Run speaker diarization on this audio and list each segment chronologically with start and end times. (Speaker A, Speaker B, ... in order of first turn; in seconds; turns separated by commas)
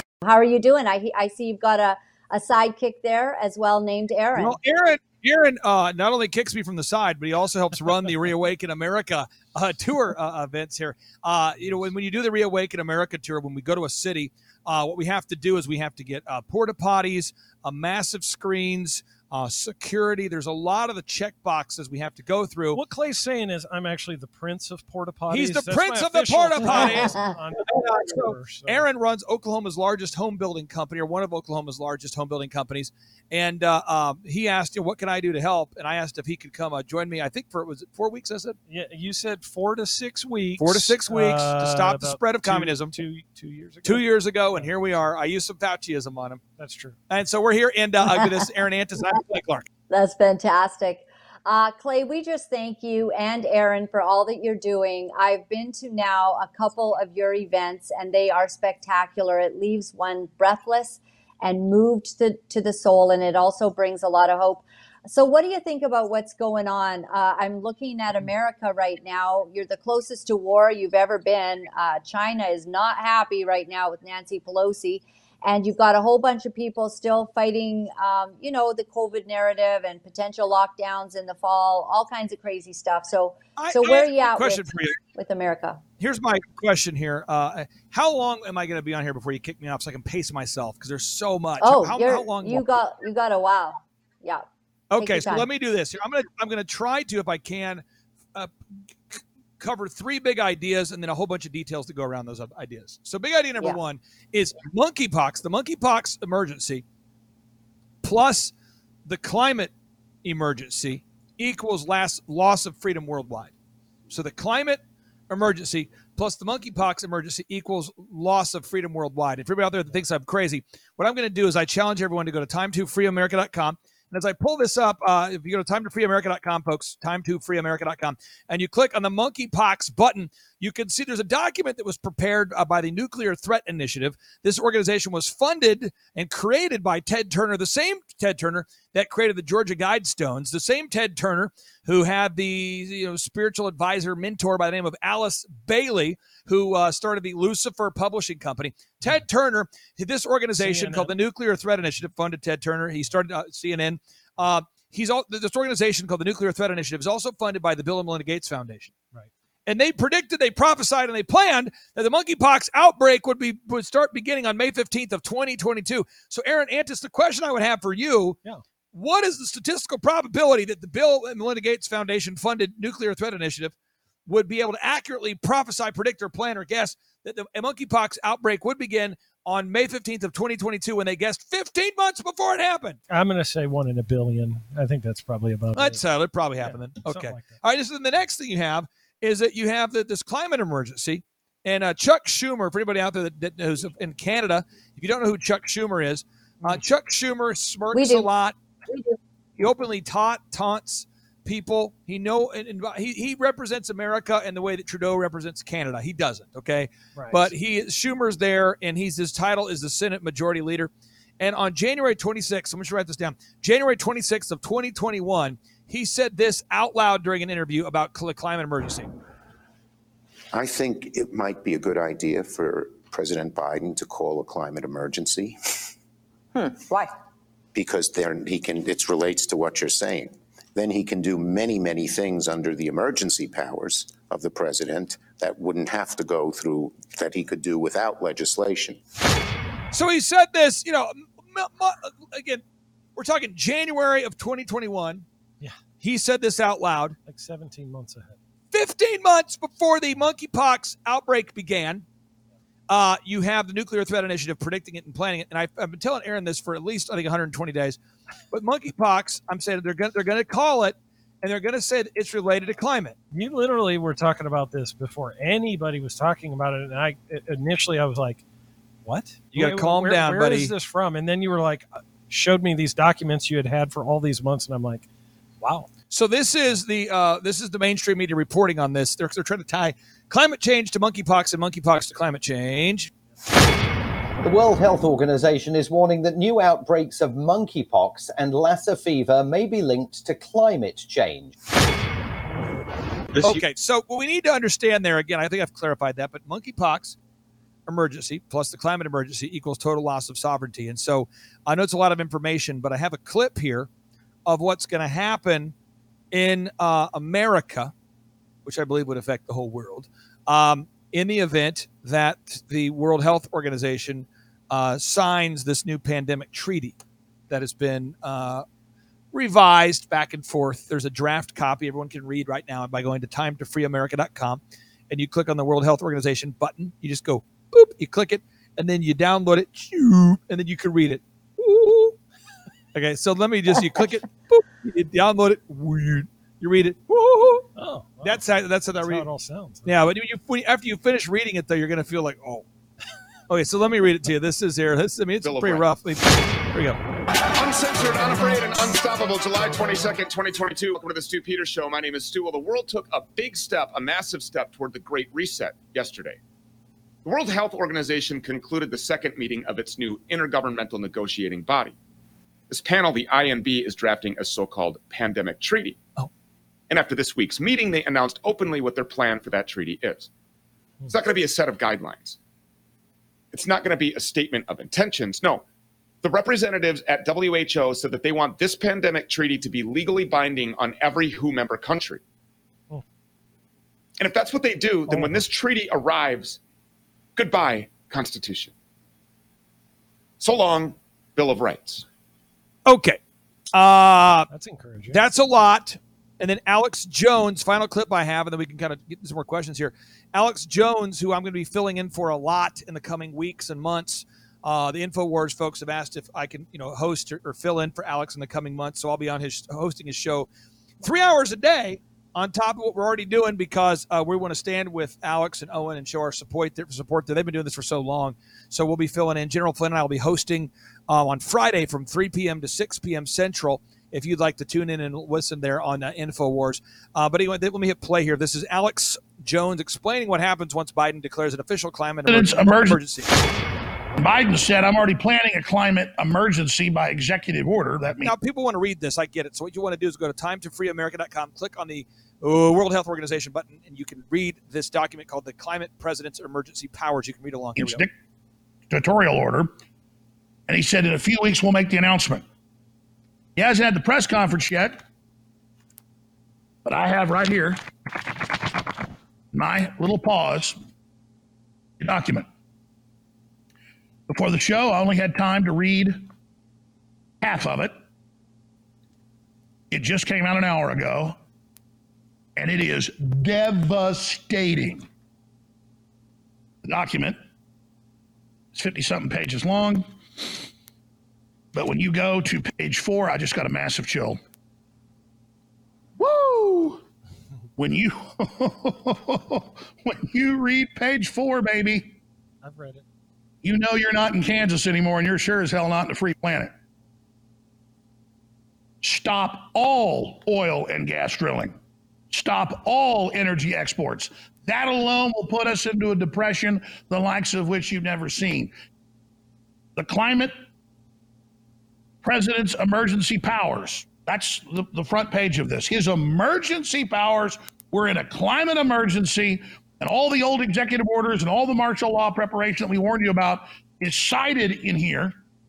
Speaker A: 0.2-4.6, Speaker B: 4.4-22.8, Speaker C: 11.6-11.9, Speaker C: 22.7-28.9, Speaker B: 25.3-38.6, Speaker C: 38.7-45.1, Speaker B: 40.6-43.0, Speaker B: 43.9-46.4, Speaker C: 46.6-47.0, Speaker B: 47.1-49.7, Speaker A: 49.9-85.8, Speaker B: 83.6-85.0, Speaker B: 86.0-92.7, Speaker A: 91.6-94.5, Speaker B: 94.9-97.8, Speaker A: 95.0-95.5, Speaker B: 99.1-106.8, Speaker B: 108.0-108.5, Speaker B: 109.1-109.7, Speaker B: 110.2-113.5, Speaker B: 114.1-158.9, Speaker C: 150.6-151.1, Speaker B: 159.7-168.4, Speaker B: 168.9-173.7, Speaker B: 174.3-183.0, Speaker C: 183.1-186.0, Speaker B: 185.8-198.6, Speaker C: 186.6-187.6, Speaker A: 197.9-198.3, Speaker A: 198.9-199.2, Speaker B: 199.6-219.1, Speaker C: 207.2-207.5, Speaker D: 220.5-225.6, Speaker D: 227.7-239.0, Speaker B: 239.9-242.6, Speaker B: 243.2-245.3, Speaker B: 246.0-247.2, Speaker C: 247.3-248.4, Speaker B: 248.7-252.1, Speaker B: 252.9-258.0, Speaker B: 258.5-263.2, Speaker C: 263.3-268.4, Speaker C: 269.1-275.1, Speaker B: 269.5-270.7, Speaker C: 275.6-275.9, Speaker B: 276.1-283.1, Speaker E: 284.4-291.6, Speaker B: 293.4-297.2, Speaker B: 297.9-303.9, Speaker B: 304.5-305.8, Speaker B: 306.3-307.9, Speaker B: 308.6-317.0, Speaker B: 317.5-318.6, Speaker B: 319.3-332.1, Speaker B: 332.9-337.6, Speaker C: 337.8-340.0, Speaker B: 338.2-339.3, Speaker B: 339.9-342.6, Speaker B: 343.5-347.0, Speaker F: 345.4-345.9, Speaker F: 347.5-356.4, Speaker F: 357.2-362.0, Speaker F: 362.7-366.0, Speaker F: 366.9-370.3, Speaker F: 371.1-372.4, Speaker F: 373.5-375.6, Speaker F: 376.2-382.2, Speaker F: 384.2-386.6, Speaker C: 385.1-385.4, Speaker F: 387.4-388.7, Speaker F: 390.4-392.1, Speaker B: 392.9-393.2, Speaker B: 393.7-394.5, Speaker C: 394.5-395.2, Speaker B: 395.1-410.5, Speaker B: 411.0-433.3, Speaker G: 432.3-433.0, Speaker G: 434.2-438.3, Speaker B: 438.1-448.0, Speaker G: 447.8-448.1, Speaker G: 448.9-449.7, Speaker G: 450.7-452.4, Speaker G: 453.6-455.0, Speaker G: 456.9-458.9, Speaker G: 459.5-460.8, Speaker G: 462.0-462.5, Speaker G: 464.3-466.2, Speaker G: 467.4-467.9, Speaker G: 469.9-471.4, Speaker G: 472.6-475.1, Speaker G: 476.8-477.4, Speaker G: 478.7-480.6, Speaker G: 481.7-484.4, Speaker F: 486.2-486.9, Speaker G: 487.8-492.2, Speaker C: 492.6-493.0, Speaker G: 493.6-496.7, Speaker G: 499.0-501.8, Speaker G: 502.3-508.7, Speaker G: 510.0-510.6, Speaker G: 512.2-525.4